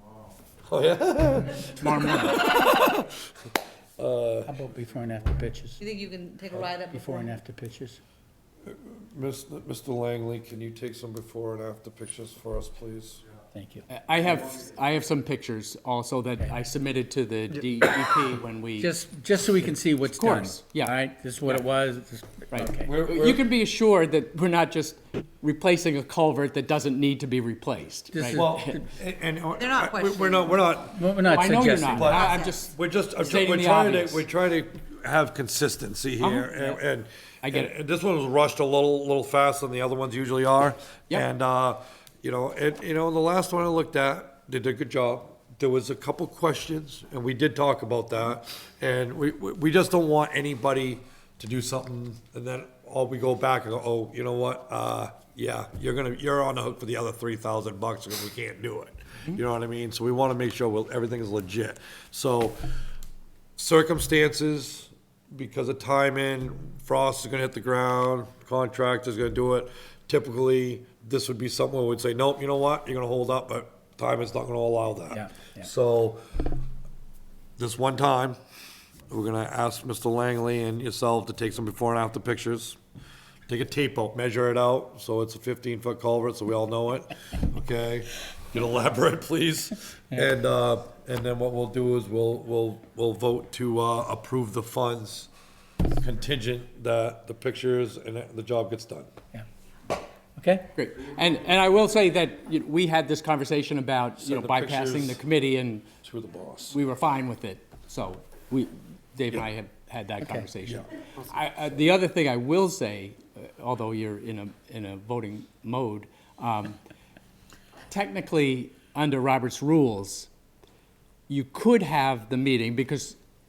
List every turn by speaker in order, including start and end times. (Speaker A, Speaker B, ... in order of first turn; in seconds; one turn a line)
Speaker A: 0.7-3.2
Speaker B: 1.8-2.6
Speaker A: 4.0-4.6
Speaker C: 4.5-5.8
Speaker D: 5.8-7.4
Speaker C: 6.9-8.0
Speaker A: 8.7-13.2
Speaker C: 13.5-13.9
Speaker B: 13.9-18.9
Speaker C: 18.8-22.9
Speaker B: 19.6-20.9
Speaker B: 22.5-28.7
Speaker A: 22.7-23.4
Speaker C: 28.1-28.9
Speaker A: 28.3-62.6
Speaker D: 29.6-30.9
Speaker C: 30.9-32.1
Speaker B: 31.3-34.3
Speaker D: 32.0-32.5
Speaker B: 36.2-36.8
Speaker B: 37.4-37.7
Speaker A: 63.6-76.4
Speaker C: 75.1-75.7
Speaker A: 77.6-78.4
Speaker A: 79.1-82.8
Speaker A: 83.5-95.3
Speaker A: 96.0-99.1
Speaker C: 100.4-100.7
Speaker B: 100.7-105.9
Speaker A: 104.2-105.2
Speaker A: 106.0-106.8
Speaker B: 106.7-116.8
Speaker B: 117.9-120.3
Speaker B: 121.3-123.2